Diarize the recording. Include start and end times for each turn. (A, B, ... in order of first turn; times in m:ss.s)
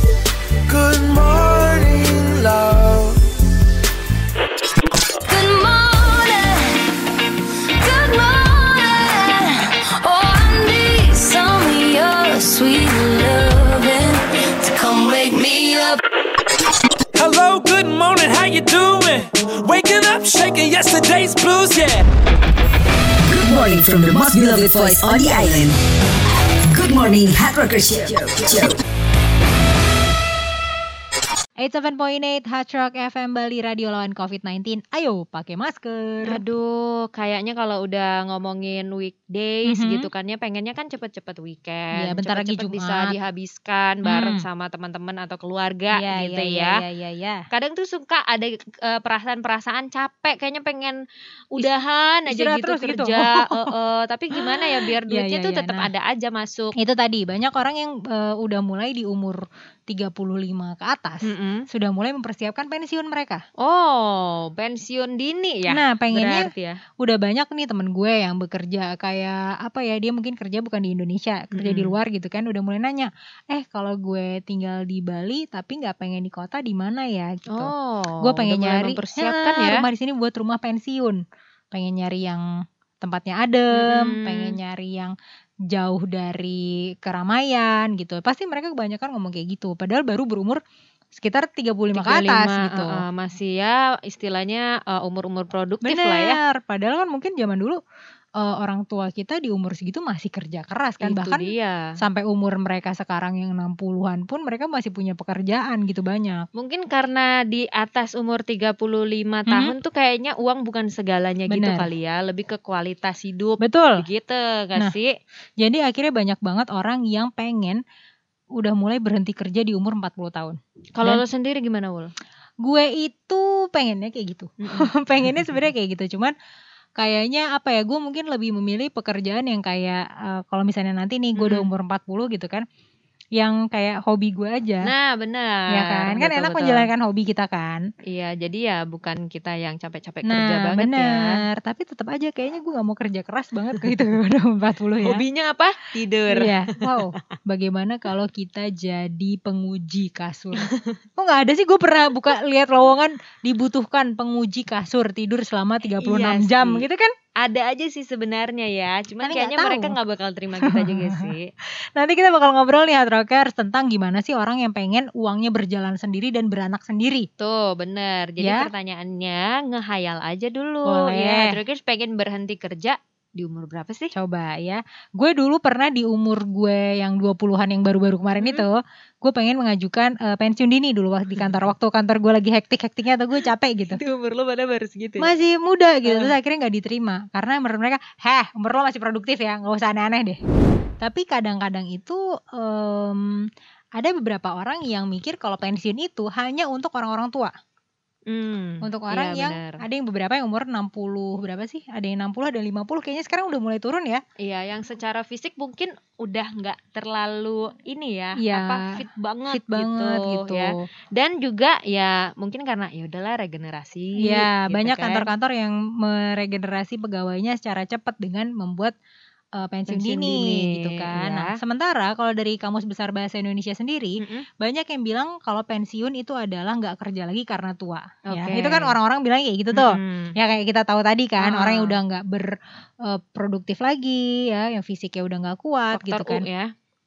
0:00.7-0:03.2 A
0:05.3-0:06.9 B
0:07.8-0:16.0 B
0:17.2-0:22.0 C
0:23.3-0:25.8 D
0:26.7-0:28.8 D
0:31.6-0:36.4 E
0:36.3-0:46.8 F
0:39.6-0:40.1 E
0:42.0-0:43.2 E
0:44.0-0:44.4 E
0:46.0-0:47.4 E
0:47.5-0:51.0 F
0:51.5-0:56.8 F
0:52.3-0:53.7 E
0:54.4-0:55.9 E
0:56.8-1:03.4 E
1:01.2-1:01.7 F
1:03.6-1:06.8 F
1:05.7-1:06.5 E
1:07.0-1:25.1 E
1:11.5-1:12.0 F
1:17.5-1:19.8 F
1:23.7-1:24.6 F
1:25.7-1:30.6 E
1:31.1-1:33.0 E
1:31.9-1:36.4 F
1:35.8-1:37.8 E
1:38.4-1:46.5 E
1:41.0-1:41.9 F
1:46.6-1:55.1 F
1:49.5-1:49.8 E
1:51.5-1:51.9 E
1:53.6-1:54.0 E
1:55.6-1:57.8 E
1:58.6-2:01.2 E
2:01.0-2:02.1 F
2:02.6-2:06.3 E
2:04.6-2:05.4 F
2:07.0-2:12.6 E
2:11.4-2:11.7 F
2:13.4-2:14.9 E
2:14.8-2:16.9 F
2:15.7-2:17.9 E
2:18.1-2:21.4 F
2:20.2-2:25.2 E
2:25.0-2:27.0 F
2:26.3-2:37.1 E
2:30.6-2:31.0 F
2:35.8-2:36.9 F
2:37.4-2:41.5 F
2:39.2-2:40.0 E
2:40.6-2:41.4 E
2:42.0-2:47.3 E
2:47.4-2:54.1 F
2:48.4-2:48.7 E
2:50.8-2:51.6 E
2:54.1-3:04.0 E
2:58.4-2:58.7 F
3:03.9-3:05.3 F
3:05.2-3:10.4 E
3:06.0-3:06.4 F
3:11.0-3:17.5 E
3:18.3-3:19.8 F
3:18.8-3:24.2 E
3:24.4-3:35.3 F
3:28.4-3:30.8 E
3:34.2-3:38.9 E
3:39.6-3:56.5 E
3:39.9-3:41.6 F
3:44.2-3:44.5 F
3:48.3-3:49.0 F
3:49.7-3:50.4 F
3:51.4-3:52.0 F
3:55.9-3:56.7 F